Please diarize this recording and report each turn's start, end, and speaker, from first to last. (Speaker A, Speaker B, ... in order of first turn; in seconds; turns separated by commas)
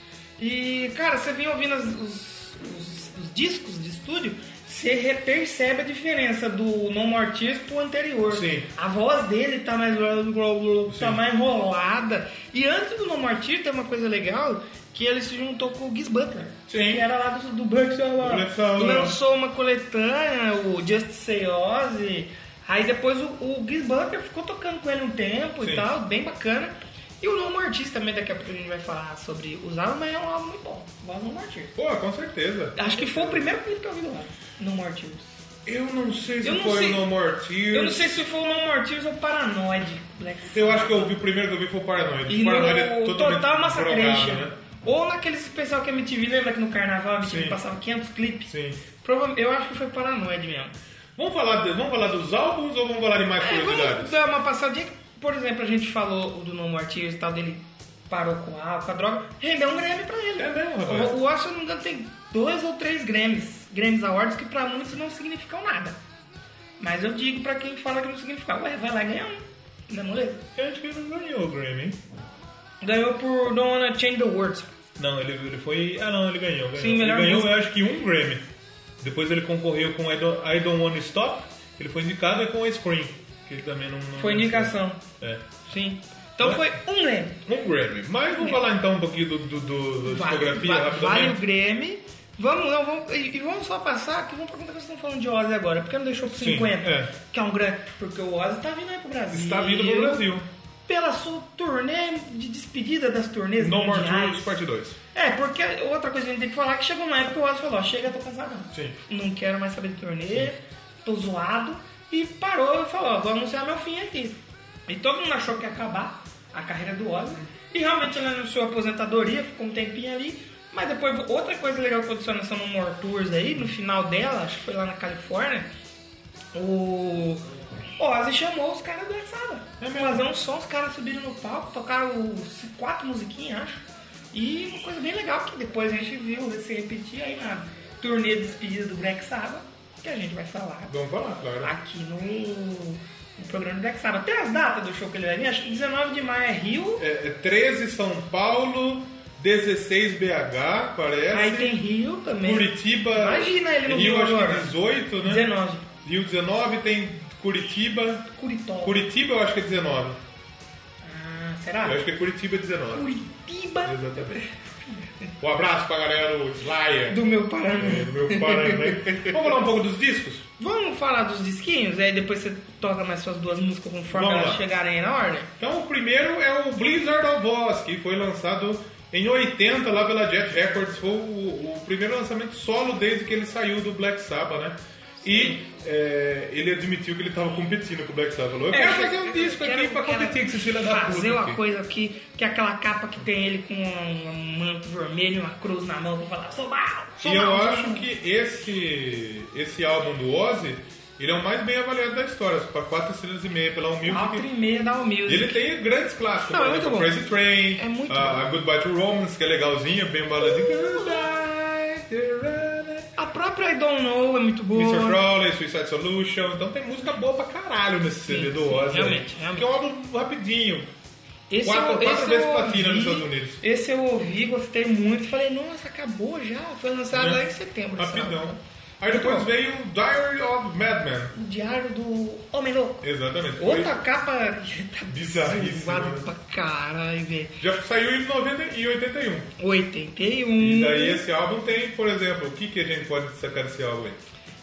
Speaker A: 0.4-31.8, Speaker B: 8.3-8.7, Speaker B: 10.9-11.2, Speaker B: 16.7-17.0, Speaker B: 18.2-19.2, Speaker B: 25.6-25.9, Speaker B: 31.8-33.4, Speaker A: 32.8-35.3, Speaker B: 35.6-38.2, Speaker A: 36.4-37.1, Speaker A: 37.7-41.1, Speaker B: 40.5-44.5, Speaker A: 42.3-50.7, Speaker B: 47.2-47.6, Speaker B: 48.5-48.8, Speaker B: 51.1-54.2, Speaker A: 53.4-66.0, Speaker B: 60.4-61.1, Speaker A: 66.8-70.4, Speaker B: 70.5-72.0, Speaker A: 72.8-74.7, Speaker B: 75.0-78.4, Speaker A: 76.8-77.6, Speaker B: 79.0-85.4, Speaker A: 84.2-85.0, Speaker A: 85.7-87.4, Speaker B: 86.4-86.7, Speaker B: 87.5-91.4, Speaker A: 88.3-88.6, Speaker A: 90.0-100.3, Speaker B: 96.3-97.1, Speaker B: 99.3-100.5, Speaker A: 100.9-104.5, Speaker B: 103.6-105.0, Speaker A: 105.1-125.7, Speaker A: 126.5-127.4, Speaker A: 128.0-133.8, Speaker B: 129.8-130.2, Speaker A: 134.3-140.9, Speaker B: 140.9-141.7, Speaker A: 141.6-147.0, Speaker B: 147.0-151.8, Speaker A: 151.3-154.7, Speaker B: 152.4-155.5, Speaker A: 155.2-155.9, Speaker B: 156.0-158.3, Speaker A: 158.3-159.0, Speaker B: 158.8-160.2, Speaker A: 161.0-162.0, Speaker B: 161.8-163.1, Speaker A: 162.9-165.3, Speaker B: 163.8-164.4, Speaker B: 165.4-170.4, Speaker A: 167.1-169.3, Speaker A: 170.6-175.5, Speaker B: 174.1-174.6, Speaker B: 175.6-191.6, Speaker A: 185.2-185.6, Speaker A: 188.7-198.1, Speaker B: 197.2-204.4, Speaker A: 204.1-205.7, Speaker B: 205.2-213.1, Speaker A: 206.5-207.2, Speaker A: 207.7-208.5, Speaker A: 210.4-211.4, Speaker A: 213.2-215.2, Speaker B: 214.7-220.9, Speaker A: 218.3-219.7, Speaker A: 221.5-229.5, Speaker B: 221.6-223.6, Speaker B: 227.1-231.3, Speaker A: 231.3-233.1, Speaker B: 233.0-234.0, Speaker A: 233.6-237.6, Speaker B: 235.1-236.3, Speaker B: 237.6-239.5, Speaker A: 239.6-241.2, Speaker B: 240.6-244.2